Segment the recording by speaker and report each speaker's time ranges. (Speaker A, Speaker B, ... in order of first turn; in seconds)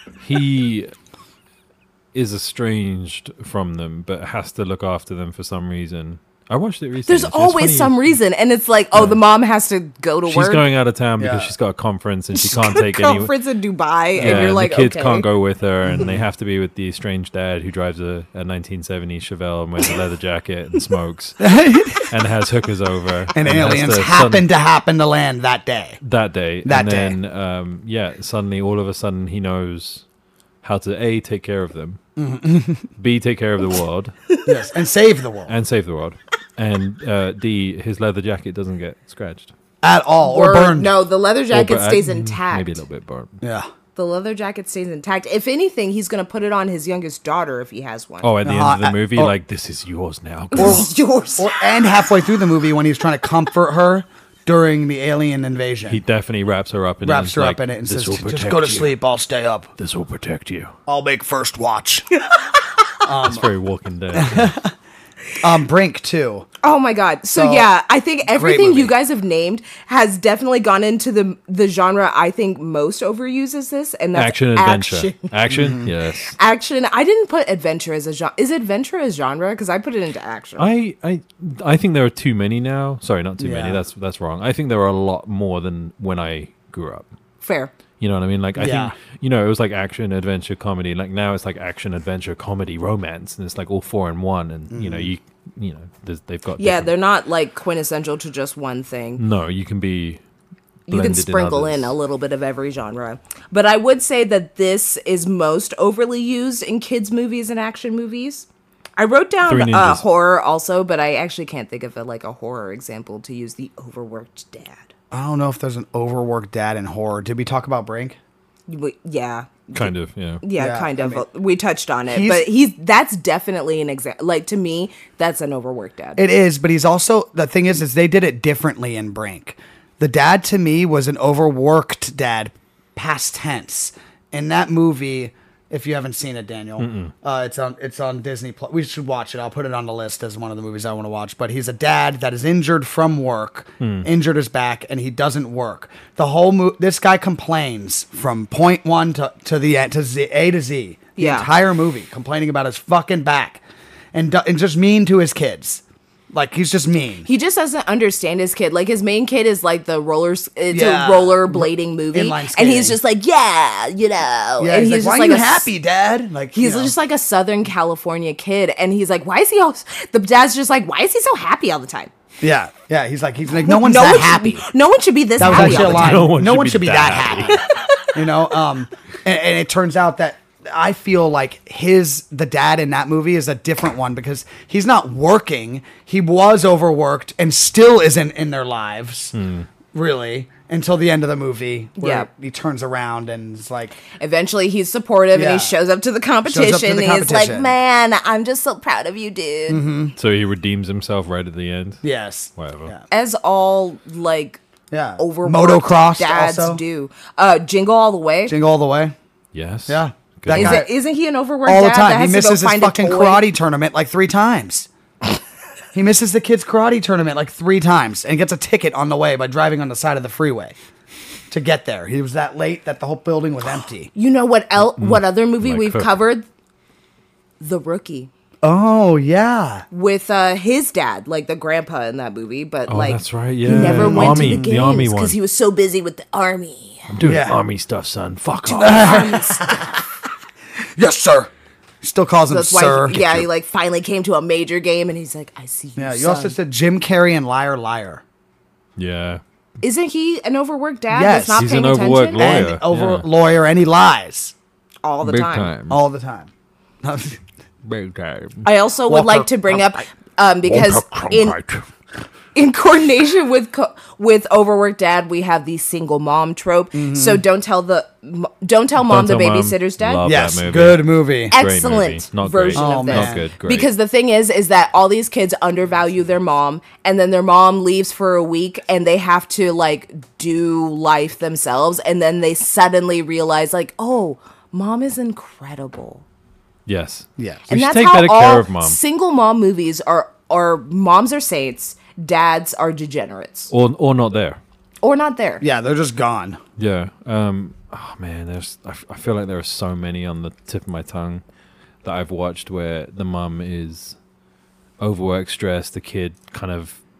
Speaker A: 0.2-0.9, 2.1-8.2, 8.9-9.2, 10.2-13.3, 14.2-24.4, 26.0-30.0, 30.6-32.0, 33.0-34.1, 35.5-39.5, 41.5-43.3, 48.2-50.9, 55.9-58.9, 59.8-60.7, 63.1-64.6, 74.1-76.3, 80.6-87.1, 88.0-96.9, 99.2-100.2, 100.9-101.9, 109.5-110.0, 119.7-120.4, 136.8-137.1, 143.8-144.1, 175.4-177.5, 189.3-189.7, 200.2-202.0, 202.6-202.9, 209.5-210.8, 224.9-226.1, 232.9-235.4, 237.1-239.2, 249.0-249.4, 251.6-253.2, 255.2-256.0, 257.8-258.6, 260.6-261.8, 269.0-273.9, 286.9-289.0, 293.7-294.6, 296.8-301.4, 302.0-304.1, 305.0-307.0
Speaker B: 7.1-10.6, 12.3-15.3, 40.2-42.8, 44.0-48.3, 50.5-51.7, 66.6-75.3, 76.3-80.7, 87.4-87.7, 96.6-99.2, 100.9-114.9, 118.7-126.2, 151.2-151.5, 157.2-165.7, 166.5-172.1, 173.6-176.2, 177.5-178.1, 192.0-192.3, 194.1-199.8, 203.1-204.6, 205.2-208.6, 210.5-213.4, 224.1-226.5, 227.6-228.3, 229.9-237.1, 238.7-239.8, 242.5-246.6, 249.8-252.6, 255.0-255.7, 258.6-261.6, 262.5-270.2, 271.5-286.2, 287.7-293.7, 295.0-295.6
Speaker C: 11.2-11.5, 14.2-14.4, 15.8-16.2, 21.4-22.1, 23.3-26.0, 26.6-27.2, 32.2-32.9, 34.5-35.5, 39.8-40.9, 43.4-43.7, 48.4-49.3, 50.6-56.0, 57.0-59.7, 60.9-62.1, 63.0-63.5, 64.1-64.7, 65.4-66.5, 67.3-67.7, 68.3-68.9, 75.5-75.9, 83.4-83.8, 88.5-88.9, 94.7-95.1, 115.1-118.2, 120.5-121.2, 122.1-122.5, 126.2-153.6, 154.1-157.3, 160.7-163.0, 164.6-166.9, 172.4-174.7, 175.4-177.6, 178.1-189.3, 189.9-194.0, 195.3-195.7, 196.4-197.7, 199.7-200.1, 202.0-203.0, 204.9-206.8, 208.4-209.1, 209.9-210.9, 211.6-214.9, 215.9-220.7, 221.5-224.1, 228.6-229.8, 233.6-234.8, 237.2-237.6, 238.7-240.0, 240.9-241.5, 242.0-243.5, 245.9-248.2, 251.1-251.7, 252.3-254.5, 255.9-256.5, 257.0-257.4, 259.1-259.8, 266.9-267.4, 270.2-271.5, 272.7-273.5, 287.4-287.6, 295.6-296.6